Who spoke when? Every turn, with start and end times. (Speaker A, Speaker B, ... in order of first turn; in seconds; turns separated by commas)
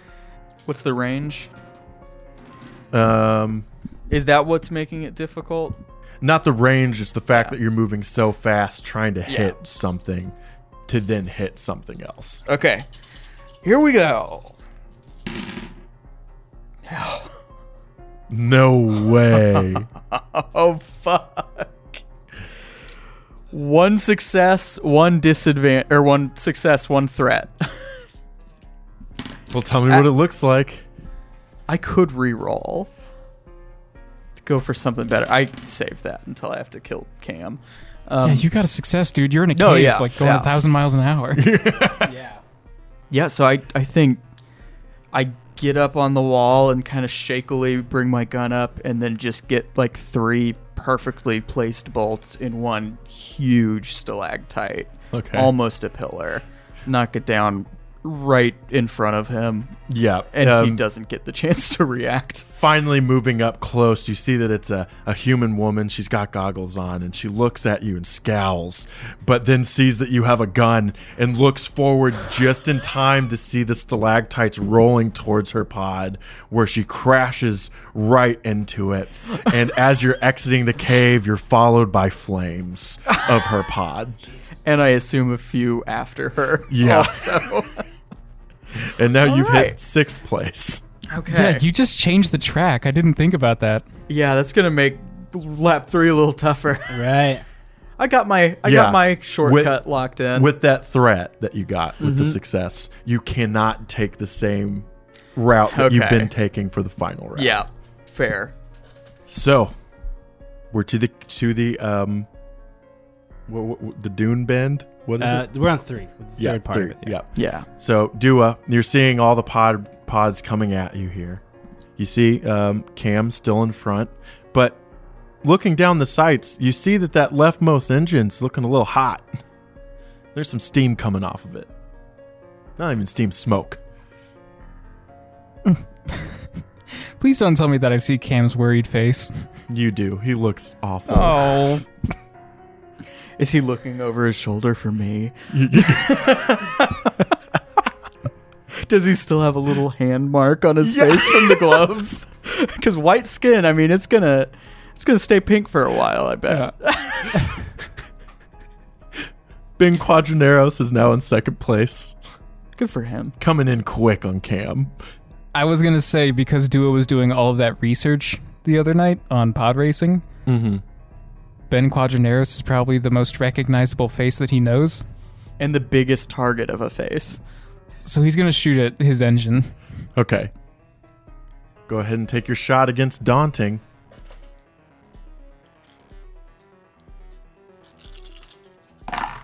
Speaker A: 0.7-1.5, Speaker B: 2.9-3.7, Speaker A: 4.1-5.8, Speaker B: 6.2-10.3, Speaker A: 9.3-9.6, Speaker B: 10.9-12.5, Speaker A: 12.5-12.9, Speaker A: 13.6-14.6, Speaker A: 16.9-17.3, Speaker B: 18.3-19.9, Speaker A: 19.3-22.0, Speaker A: 23.5-28.0, Speaker B: 29.5-30.9, Speaker A: 31.7-32.9, Speaker A: 34.4-38.5, Speaker C: 38.2-41.4, Speaker A: 39.5-40.5, Speaker B: 41.4-42.2, Speaker D: 42.1-42.4, Speaker A: 43.1-44.2, Speaker A: 45.1-62.5, Speaker B: 55.1-55.5, Speaker B: 59.9-60.8, Speaker B: 62.5-84.2, Speaker A: 83.1-83.4, Speaker A: 84.7-87.8, Speaker B: 86.7-87.4, Speaker B: 88.8-90.8, Speaker A: 89.2-89.8, Speaker A: 91.1-91.6, Speaker C: 91.3-93.8, Speaker A: 94.1-97.1, Speaker D: 96.9-97.4, Speaker A: 98.0-100.5, Speaker B: 98.7-99.8, Speaker B: 100.3-107.6, Speaker A: 102.0-102.4, Speaker A: 105.7-106.3, Speaker A: 107.4-108.5, Speaker B: 109.3-109.8, Speaker B: 110.7-112.3, Speaker B: 113.5-115.5, Speaker D: 115.2-117.2, Speaker B: 116.4-121.4, Speaker A: 117.3-117.7, Speaker B: 122.0-124.8, Speaker B: 125.4-129.3, Speaker B: 130.3-131.7, Speaker B: 132.8-133.8, Speaker C: 135.7-139.5, Speaker B: 139.7-141.7, Speaker C: 141.1-141.9, Speaker A: 143.4-147.2, Speaker B: 145.5-146.2, Speaker A: 148.7-157.7, Speaker B: 150.8-151.8, Speaker B: 159.8-162.2, Speaker A: 162.8-163.3, Speaker B: 163.4-164.9, Speaker C: 165.5-170.2, Speaker B: 170.5-170.8, Speaker C: 171.7-175.0, Speaker A: 175.6-177.4, Speaker C: 178.1-179.8, Speaker B: 180.2-180.5, Speaker B: 181.9-183.8